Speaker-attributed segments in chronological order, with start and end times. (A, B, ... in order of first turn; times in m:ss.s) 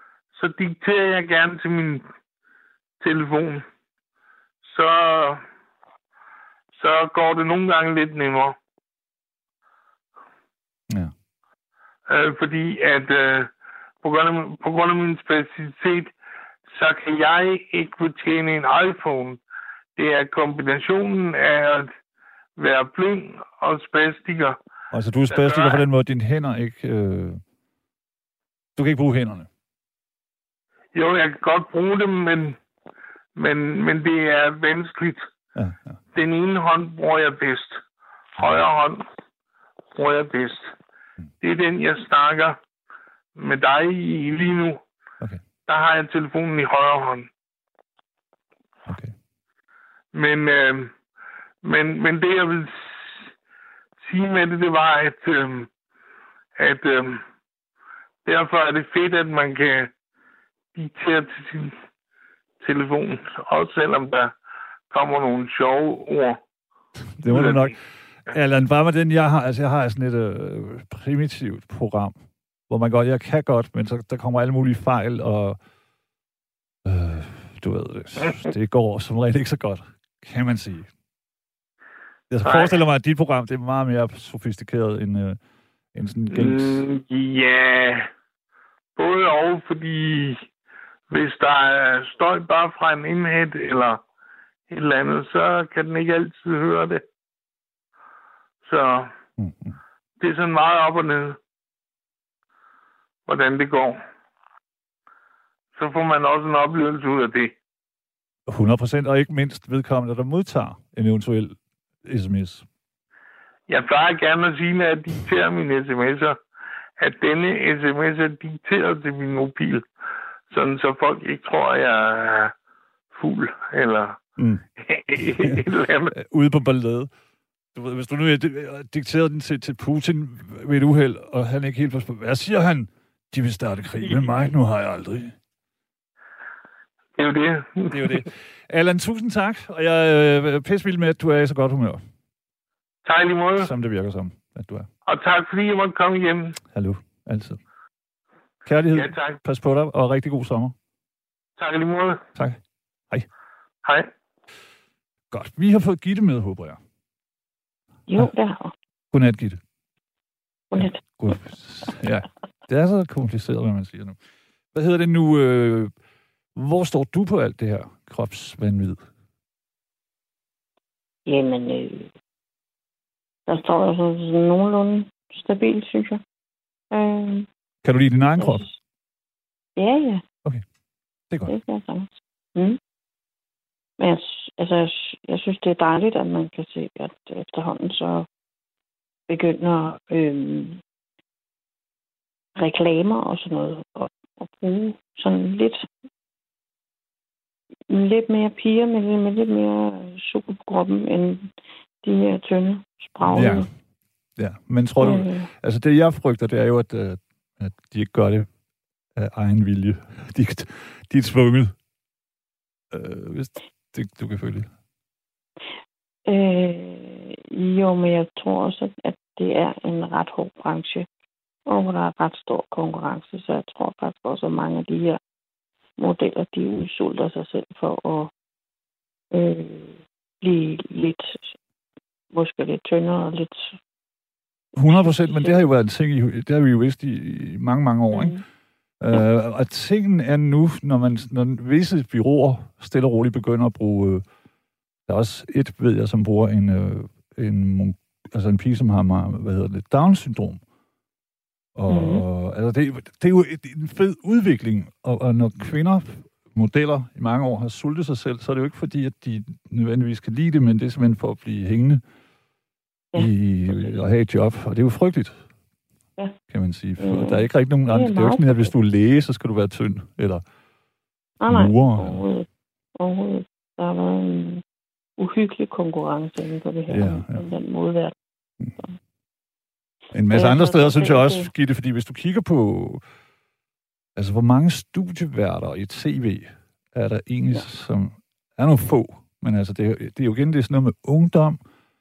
0:00.3-0:02.0 A
0:03.0-0:03.6 A
0:04.6-0:05.4 A
0:06.8-0:08.6 A
0:12.1-0:13.5 A
0:14.0-0:16.1 A
0:16.7-0:19.4 A
0:20.0-0:21.9 A
0:22.6-0:24.6 A
0:24.9-0:27.4 B
0:25.3-0:25.8 A
0:28.8-0:29.5 B
0:30.9-0:32.6 A
0:33.4-0:35.3 A
0:35.6-0:36.0 B
0:36.1-0:37.8 A
0:38.4-0:39.0 A
0:40.0-0:40.7 A
0:41.4-0:42.6 A
0:43.4-0:44.8 A
0:45.7-0:47.3 A
0:48.9-0:49.2 B
0:50.1-0:50.9 A
0:51.6-0:53.3 A
0:54.0-0:55.7 A
0:56.6-0:57.2 A
0:58.2-0:59.9 A
1:00.8-1:01.7 A
1:02.6-1:04.3 A
1:04.9-1:06.4 A
1:07.2-1:12.2 B
1:07.3-1:07.7 A
1:12.7-1:15.6 B
1:16.8-1:20.9 B
1:22.3-1:25.4 B
1:22.4-1:22.8 A
1:25.9-1:26.9 B
1:26.3-1:28.1 A
1:29.0-1:30.5 A
1:31.1-1:34.0 A
1:34.7-1:37.0 A
1:38.6-1:39.1 A
1:39.4-1:39.8 B
1:40.2-1:41.4 A
1:43.3-1:44.0 A
1:45.8-1:47.6 A
1:48.5-1:52.6 B
1:53.7-1:56.4 A
1:57.0-1:59.8 A
2:00.5-2:02.5 A
2:03.1-2:04.2 A
2:04.4-2:04.6 B
2:04.8-2:06.2 A
2:05.2-2:07.1 B
2:07.7-2:15.4 B
2:17.2-2:18.2 A
2:17.9-2:22.0 B
2:23.0-2:23.7 A
2:23.6-2:24.9 B
2:25.1-2:26.6 A
2:26.7-2:27.6 B
2:28.7-2:30.8 B
2:28.9-2:29.4 A
2:31.6-2:32.2 A
2:32.4-2:33.3 B
2:33.8-2:34.1 A
2:35.3-2:36.8 B
2:38.1-2:38.7 C
2:39.1-2:39.6 B
2:40.7-2:41.0 C
2:40.7-2:44.2 B
2:44.7-2:45.9 B
2:46.6-2:49.0 B
2:51.3-2:52.1 C
2:53.5-2:56.2 C
2:56.9-2:57.5 C
2:57.8-2:58.7 B
2:58.4-2:58.8 C
2:59.8-3:00.2 C
3:01.3-3:01.6 B
3:01.5-3:02.8 C
3:04.0-3:08.3 C
3:09.3-3:10.8 C
3:12.6-3:15.9 C
3:17.9-3:23.7 C
3:23.2-3:23.7 B
3:24.4-3:28.5 B
3:25.0-3:25.5 C
3:29.2-3:31.7 B
3:32.9-3:34.7 B
3:36.3-3:41.1 C
3:41.7-3:45.2 C
3:46.0-3:48.3 C
3:49.3-3:51.6 C
3:52.3-3:53.8 C
3:54.7-3:55.6 C
3:54.8-3:58.4 B
3:58.1-3:58.4 C
3:59.0-4:04.2 B
4:05.1-4:10.6 B
4:11.8-4:22.0 B
4:11.9-4:12.2 C
4:23.2-4:25.4 B
4:26.5-4:30.4 B
4:27.0-4:28.7 C
4:31.4-4:34.6 C
4:31.5-4:32.2 B
4:35.2-4:38.1 C
4:36.9-4:37.4 B
4:40.1-4:43.0 B
4:40.3-4:41.5 C
4:44.2-4:51.6 B